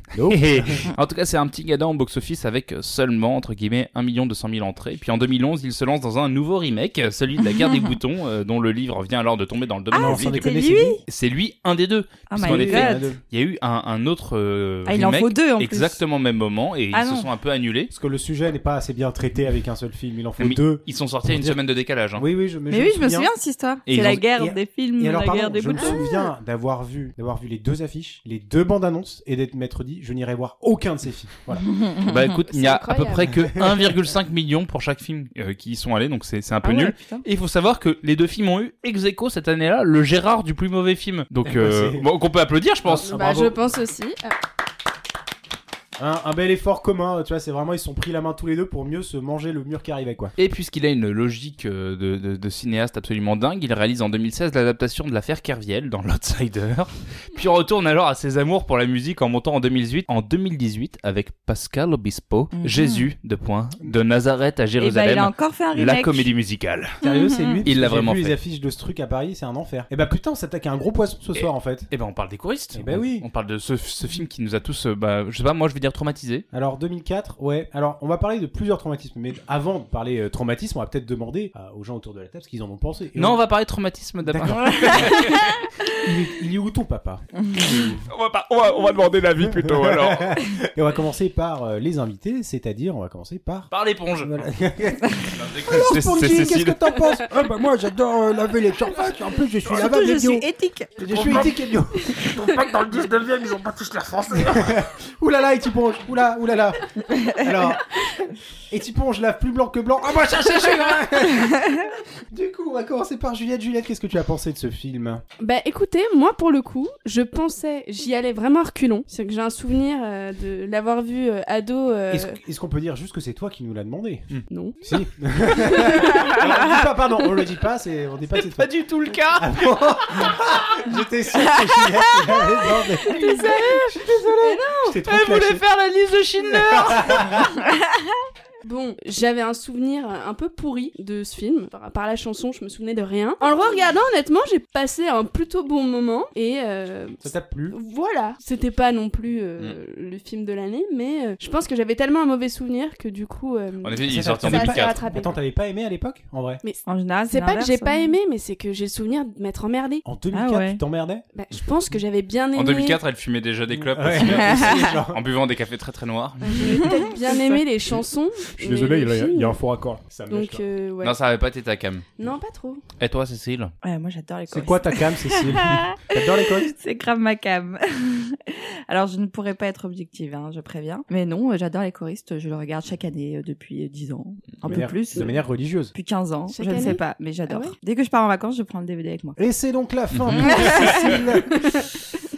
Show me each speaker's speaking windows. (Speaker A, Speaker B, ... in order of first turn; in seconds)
Speaker A: 0.1-0.9, 9.9-11.0, 12.3-13.2, 17.9-21.6, 22.1-23.3, 24.3-31.7, 41.4-42.1, 42.8-43.5, 46.0-50.3, 67.0-71.9, 72.7-73.2, 76.5-83.4, 84.2-85.3, 86.0-88.0, 89.4-93.7, 94.2-102.2, 104.3-107.8, 108.7-115.2, 122.1-135.6, 136.4-137.6, 147.2-147.8, 154.1-156.6, 160.0-161.2, 163.7-165.2, 168.6-170.6, 174.5-176.7, 184.6-185.9, 189.4-191.5
Speaker B: 0.3-10.4, 11.1-17.9, 20.4-22.2, 23.9-24.2, 32.0-43.2, 50.4-67.0, 67.6-68.4, 71.3-76.4, 83.2-85.7, 88.1-90.4, 93.7-94.4, 95.3-97.0, 101.0-101.5, 102.3-104.7, 128.3-129.5, 135.0-137.2, 153.8-155.1, 162.5-166.8, 171.0-172.0, 173.0-173.7, 190.1-191.1
Speaker C: 7.6-8.0, 9.9-11.0, 12.3-13.1, 14.9-16.0, 16.9-17.3, 22.7-26.0, 31.6-32.1, 36.6-37.2, 62.5-63.1, 64.8-66.3, 67.0-67.6, 99.7-101.0, 131.8-132.1, 133.1-133.6, 156.8-158.2, 160.3-160.8, 164.2-164.9, 166.6-167.5, 173.8-185.3, 185.9-189.4, 190.4-191.3
Speaker D: 25.7-26.2, 32.2-33.4, 43.0-44.3, 115.4-122.3, 124.5-125.0, 125.5-126.3, 133.1-133.9, 134.4-135.0, 138.6-155.4, 156.6-160.0, 161.3-163.0, 166.4-169.6, 170.3-171.2, 172.2-172.8, 186.5-187.7